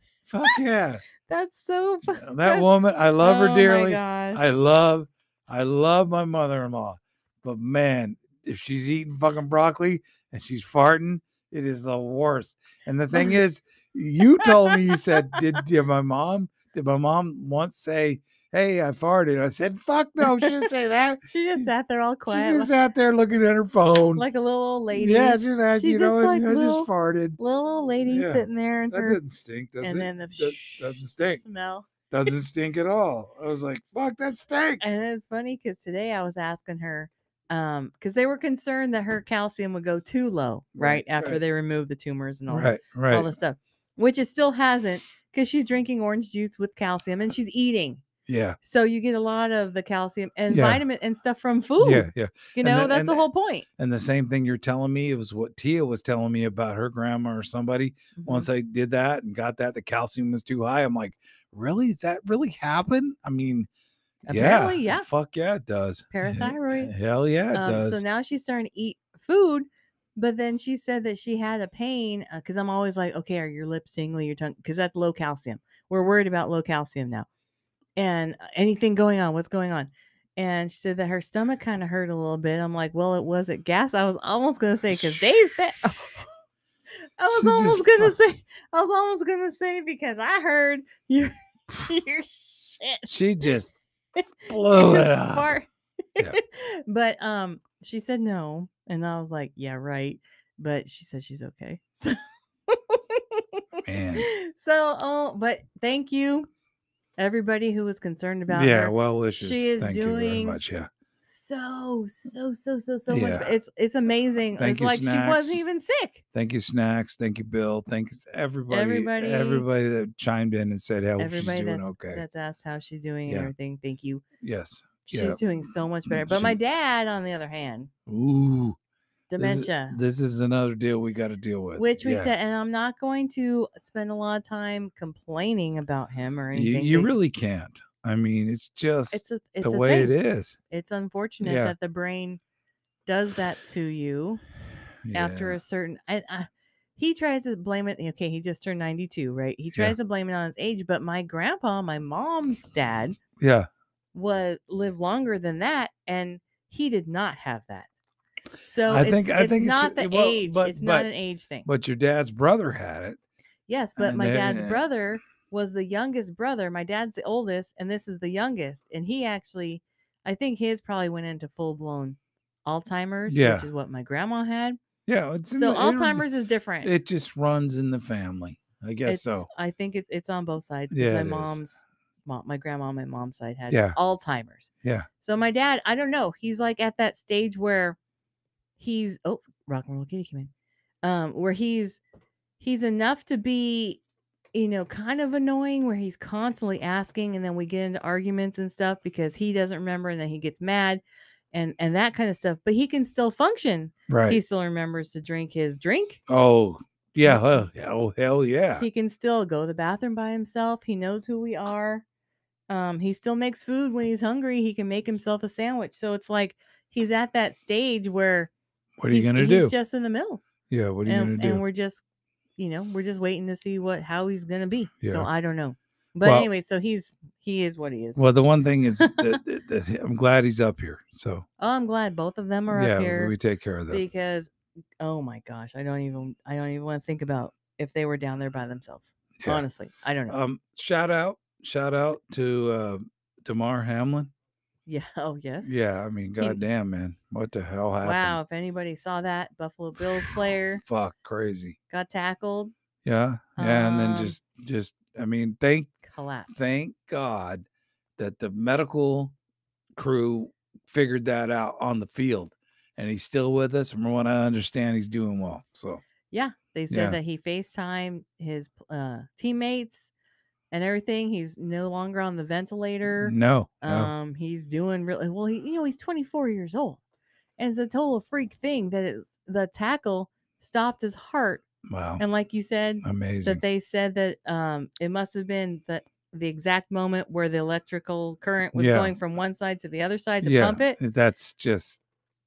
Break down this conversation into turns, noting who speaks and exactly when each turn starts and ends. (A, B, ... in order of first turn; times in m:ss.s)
0:00.3-0:01.0 A
0:01.2-0:02.7 B
0:02.1-0:21.7 A
0:03.2-0:04.5 B
0:14.4-0:15.6 B
0:20.2-0:20.7 B
0:21.3-0:22.7 B
0:22.3-0:24.2 A
0:24.2-0:29.2 B
0:24.9-0:27.4 A
0:28.1-0:31.4 A
0:29.8-0:31.9 B
0:32.1-0:34.9 A
0:34.8-0:48.0 B
0:40.8-0:41.4 A
0:42.5-0:43.3 A
0:48.3-0:48.6 A
0:48.6-0:53.7 B
0:50.5-0:50.8 A
0:51.8-0:53.2 A
0:53.8-1:03.7 A
0:58.2-0:58.5 B
1:04.3-1:05.1 B
1:04.3-1:08.0 A
1:06.1-1:06.9 B
1:07.5-1:17.3 B
1:18.0-1:26.3 B
1:24.9-1:25.2 A
1:27.2-1:33.1 B
1:27.3-1:28.1 A
1:33.1-1:33.7 A
1:34.4-1:35.6 A
1:34.4-1:46.5 B
1:43.8-1:44.3 A
1:47.2-1:50.6 B
1:48.5-1:50.9 A
1:51.2-1:56.2 B
1:53.1-1:53.5 A
1:54.6-1:55.6 A
1:56.3-2:02.2 A
1:58.7-1:59.7 B
2:01.2-2:04.2 B
2:04.4-2:05.4 A
2:05.1-2:07.9 B
2:06.1-2:06.5 A
2:08.1-2:08.8 A
2:09.3-2:10.0 B
2:09.4-2:12.3 A
2:11.8-2:17.1 B
2:16.5-2:20.6 A
2:19.1-2:20.1 B
2:20.7-2:22.4 B
2:21.4-2:21.7 A
2:23.1-2:24.4 B
2:25.0-2:25.6 A
2:25.1-2:33.2 B
2:33.4-2:33.7 A
2:34.1-2:37.9 B
2:38.6-2:41.7 B
2:38.9-2:41.1 A
2:41.6-2:43.2 A
2:43.7-2:54.8 B
2:44.0-2:44.8 A
2:53.3-2:53.7 A
2:55.1-2:56.2 A
2:55.6-2:56.9 B
2:56.8-2:59.5 A
2:59.1-3:04.7 B
3:00.9-3:01.6 A
3:03.7-3:04.0 A
3:05.2-3:08.0 B
3:08.8-3:10.5 B
3:11.0-3:12.0 B
3:12.6-3:14.0 B
3:14.5-3:21.0 B
3:21.5-3:26.2 B
3:24.1-3:24.4 A
3:26.3-3:28.9 A
3:27.2-3:27.6 B
3:28.8-3:32.0 B
3:32.7-3:38.5 B
3:39.0-3:39.7 A
3:39.1-3:40.4 B
3:40.7-3:41.6 A
3:41.1-3:42.0 B
3:42.6-3:48.2 B
3:45.0-3:45.3 A
3:46.2-3:46.5 A
3:48.2-3:51.5 A
3:49.0-3:49.4 B
3:51.6-3:53.3 B
3:52.7-3:54.0 A
3:53.9-4:00.4 B
4:00.3-4:04.3 A
4:04.9-4:05.7 B
4:05.6-4:08.4 A
4:08.0-4:10.8 B
4:10.8-4:11.8 A
4:11.9-4:12.7 B
4:13.0-4:16.0 A
4:13.6-4:14.4 B
4:16.0-4:16.7 B
4:16.5-4:17.7 A
4:18.2-4:19.3 A
4:20.0-4:26.0 A
4:26.3-4:30.1 B
4:26.9-4:27.2 A
4:30.7-4:37.0 B
4:33.2-4:34.1 A
4:37.6-4:41.6 B
4:41.8-4:42.2 A
4:42.2-4:51.0 B
4:43.0-4:43.6 A
4:48.8-4:49.1 A
4:50.4-4:52.0 A